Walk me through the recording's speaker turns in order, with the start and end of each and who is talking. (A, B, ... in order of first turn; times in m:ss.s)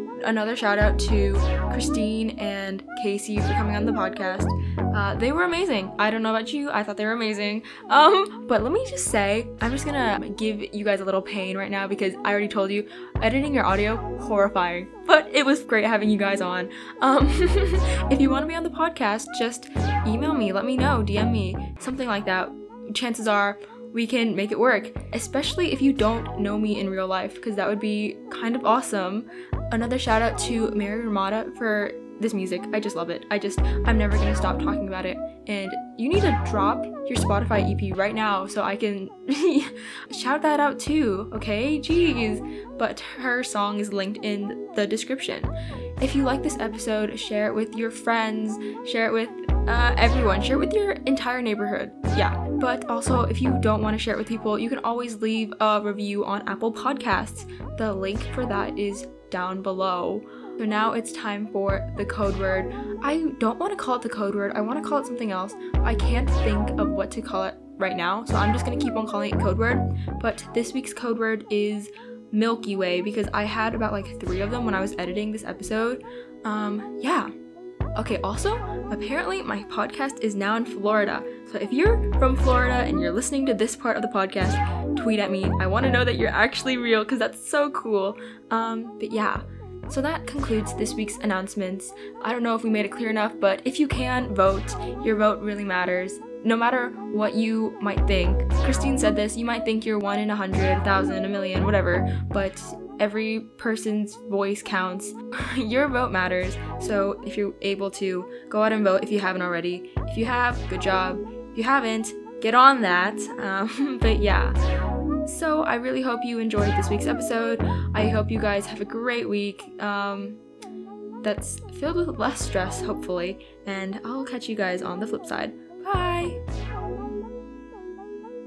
0:00.2-1:17.3 A
1:17.9-1:54.6 A
1:55.2-2:00.4 A
2:01.2-2:06.4 A